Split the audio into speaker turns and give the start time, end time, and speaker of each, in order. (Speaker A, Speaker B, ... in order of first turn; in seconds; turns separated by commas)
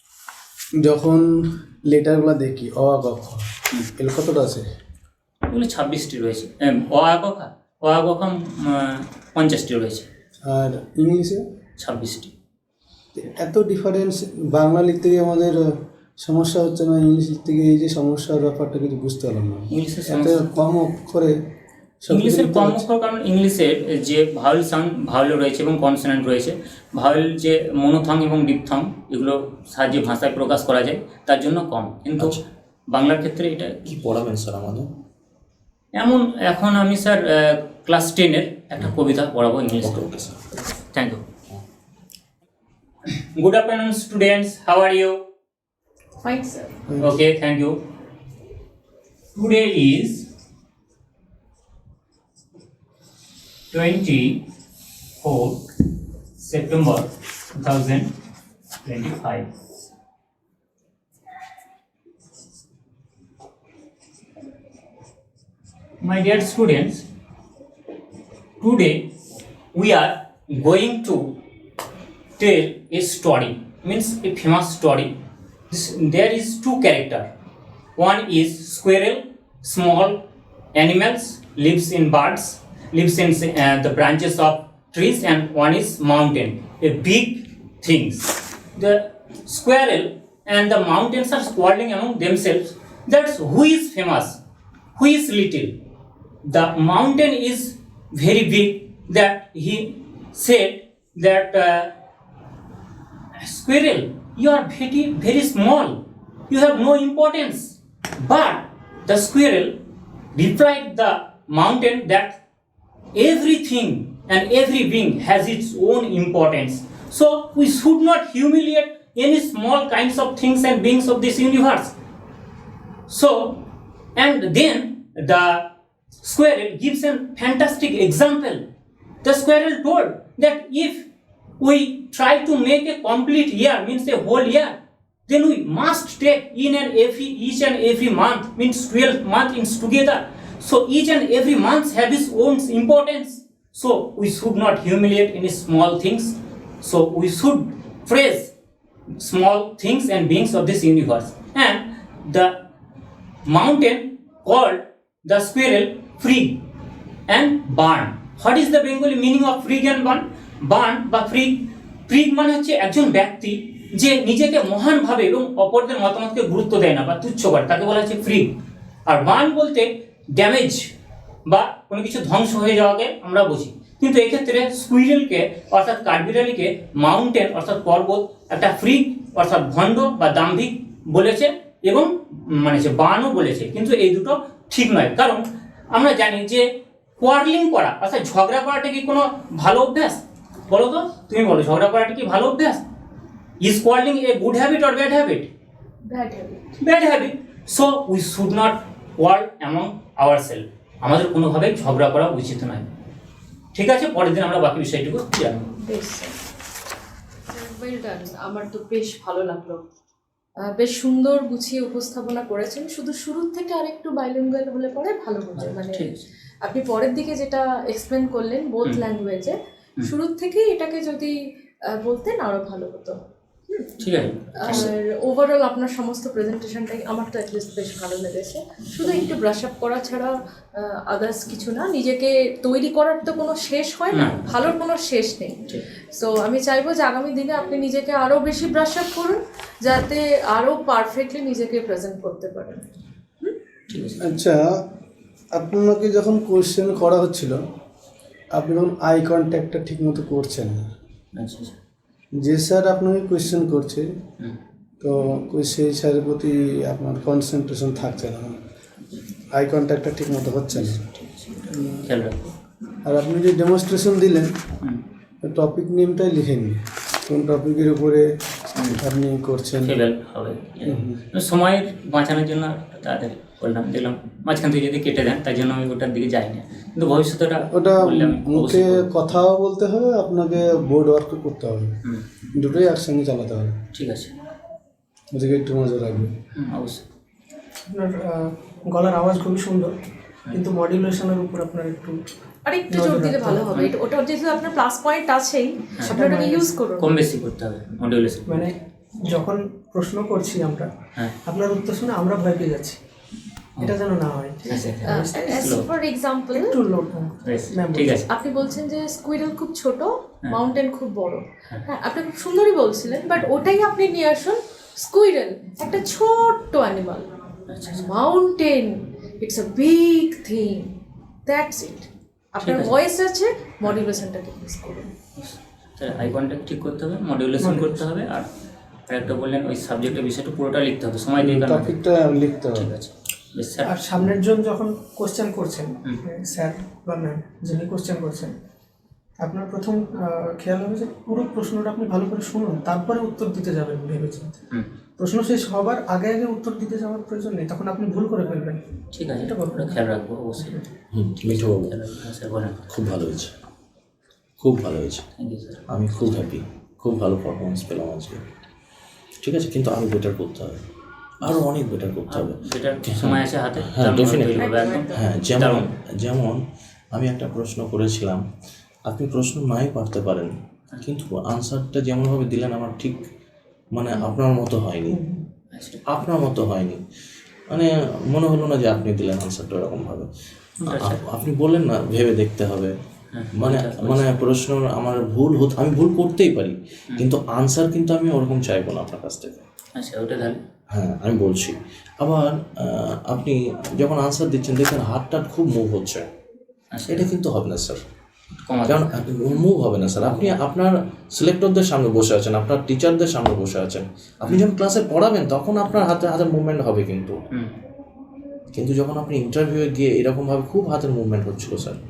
Speaker A: 0.8-4.7, Speaker B: 5.5-10.1, Speaker A: 10.5-11.4, Speaker B: 11.8-12.3, Speaker A: 13.2-15.6, Speaker A: 16.2-21.4, Speaker B: 19.7-20.5, Speaker A: 22.0-22.9, Speaker B: 22.1-33.9, Speaker C: 32.2-32.4, Speaker C: 33.9-34.9, Speaker B: 35.9-40.1, Speaker C: 39.8-40.5, Speaker B: 40.9-41.2, Speaker B: 43.1-45.2, Speaker D: 46.2-46.9, Speaker A: 46.9-47.2, Speaker B: 47.0-47.8, Speaker B: 49.3-50.3, Speaker B: 53.7-54.5, Speaker B: 55.2-55.6, Speaker B: 56.4-58.1, Speaker B: 58.8-59.5, Speaker B: 66.0-67.1, Speaker B: 68.6-69.1, Speaker B: 69.7-71.4, Speaker B: 72.4-75.2, Speaker B: 75.7-77.3, Speaker B: 78.0-80.2, Speaker B: 80.7-94.4, Speaker B: 95.0-95.8, Speaker B: 96.4-101.9, Speaker B: 103.4-109.8, Speaker B: 110.3-112.4, Speaker B: 113.1-122.0, Speaker B: 123.1-123.6, Speaker B: 124.2-125.7, Speaker B: 126.2-128.6, Speaker B: 129.2-131.1, Speaker B: 131.6-134.8, Speaker B: 135.3-148.5, Speaker B: 149.2-152.6, Speaker B: 153.5-156.6, Speaker B: 157.3-168.5, Speaker B: 169.1-170.9, Speaker B: 171.5-192.8, Speaker B: 193.6-195.5, Speaker D: 196.1-196.6, Speaker B: 196.8-202.9, Speaker B: 203.7-205.8, Speaker D: 205.8-206.4, Speaker D: 207.5-209.8, Speaker D: 210.6-216.1, Speaker B: 215.6-216.3, Speaker D: 216.6-221.3, Speaker D: 221.9-223.2, Speaker B: 224.0-224.9, Speaker D: 224.6-242.8, Speaker B: 234.1-234.7, Speaker B: 243.9-244.2, Speaker A: 244.2-244.7, Speaker A: 245.6-247.6, Speaker A: 248.6-250.9, Speaker B: 251.3-251.8, Speaker A: 252.4-254.1, Speaker A: 255.0-258.6, Speaker A: 259.5-261.0, Speaker B: 260.7-262.6, Speaker A: 261.7-262.1, Speaker A: 263.1-264.6, Speaker A: 265.4-268.3, Speaker B: 268.7-269.1, Speaker A: 268.9-270.0, Speaker B: 269.8-279.1, Speaker A: 270.8-271.2, Speaker A: 277.7-282.0, Speaker B: 282.0-282.3, Speaker A: 282.5-283.8, Speaker B: 283.9-284.4, Speaker A: 285.3-286.4, Speaker B: 286.5-287.1, Speaker E: 287.9-289.9, Speaker E: 290.5-292.2, Speaker D: 292.7-297.2, Speaker E: 292.9-293.8, Speaker E: 296.1-296.7, Speaker B: 297.0-298.7, Speaker E: 298.5-300.9, Speaker E: 301.4-303.0, Speaker E: 303.8-305.9, Speaker B: 304.7-305.9, Speaker D: 305.0-306.8, Speaker E: 306.5-308.2, Speaker B: 307.4-308.3, Speaker D: 308.3-317.3, Speaker B: 317.7-318.1, Speaker D: 317.9-325.1, Speaker B: 322.6-322.9, Speaker B: 325.4-328.5, Speaker E: 327.6-328.0, Speaker B: 329.1-332.0, Speaker A: 331.4-332.9, Speaker B: 332.7-333.9, Speaker E: 333.8-338.6, Speaker E: 339.4-344.6, Speaker E: 345.2-348.8, Speaker B: 349.1-350.9, Speaker E: 349.3-350.9, Speaker C: 351.1-352.0, Speaker B: 351.4-352.9, Speaker C: 352.9-353.5, Speaker C: 354.6-355.2, Speaker B: 355.4-356.4, Speaker C: 355.9-358.4, Speaker C: 359.4-360.8, Speaker C: 361.4-366.6, Speaker B: 362.3-365.9, Speaker D: 364.6-365.3, Speaker C: 367.1-368.4, Speaker C: 369.1-373.2, Speaker C: 373.9-375.2, Speaker E: 375.1-375.4, Speaker B: 375.7-376.1, Speaker C: 376.1-377.0, Speaker C: 377.7-380.3, Speaker B: 380.8-381.2, Speaker C: 380.9-382.9, Speaker B: 383.3-384.4, Speaker C: 383.6-389.6, Speaker B: 390.0-390.6, Speaker C: 390.9-396.3, Speaker B: 396.9-397.3, Speaker C: 397.1-398.0, Speaker B: 398.6-399.1, Speaker C: 398.9-407.4, Speaker B: 400.2-400.6, Speaker C: 408.7-412.0